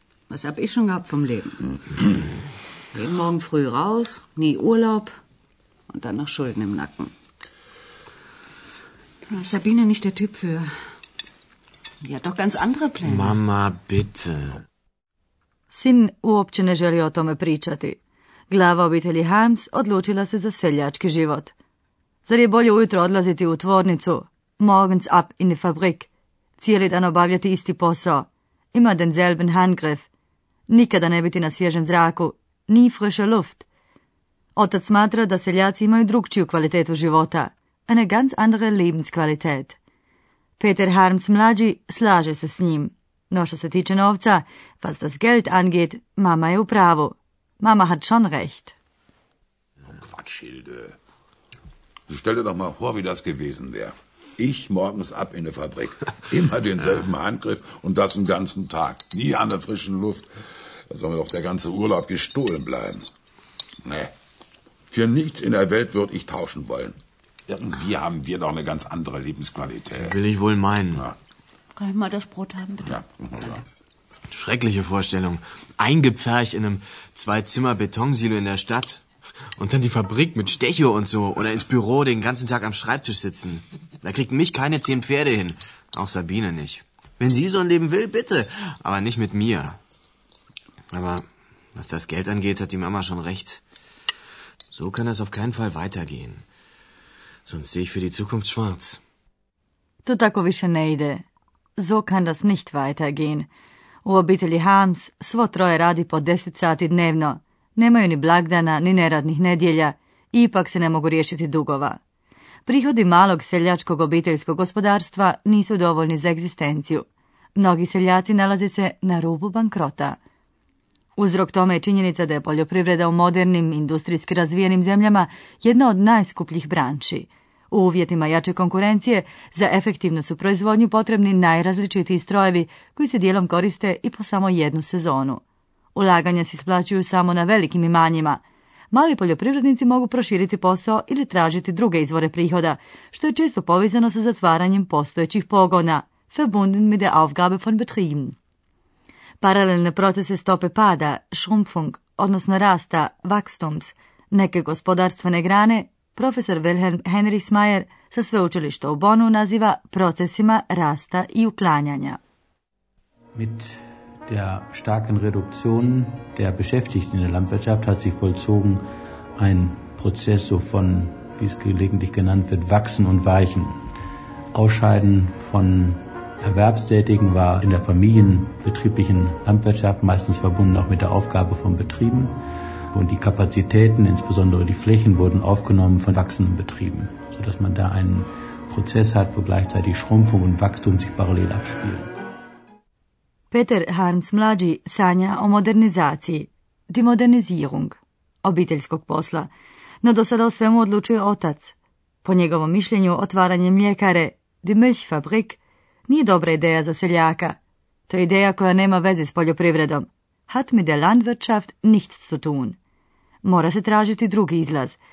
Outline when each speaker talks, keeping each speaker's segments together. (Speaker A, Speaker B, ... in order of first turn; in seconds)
Speaker A: 0.3-2.1, 2.9-5.1, 5.9-7.1, 9.3-10.7, 12.0-13.4, 71.8-73.0
Speaker B: 13.1-14.6, 70.0-71.0, 74.3-89.8, 90.9-93.6, 94.7-96.4, 97.4-99.0
Speaker C: 15.7-18.0, 18.5-21.5, 22.2-26.1, 26.6-30.1, 30.7-33.6, 34.5-39.8, 40.6-48.8, 100.0-101.2, 101.8-103.5, 104.0-112.0, 112.7-120.2, 121.2-135.4, 135.9-148.3, 149.4-162.2, 193.5-199.5, 200.0-207.6, 208.1-212.8, 213.4-215.0
Speaker D: 49.8-51.0, 52.1-60.2, 60.9-63.0, 63.8-64.1, 64.9-67.0, 67.5-70.2, 72.9-73.6
Speaker E: 163.3-168.8, 169.4-173.8, 174.5-182.3, 182.9-192.1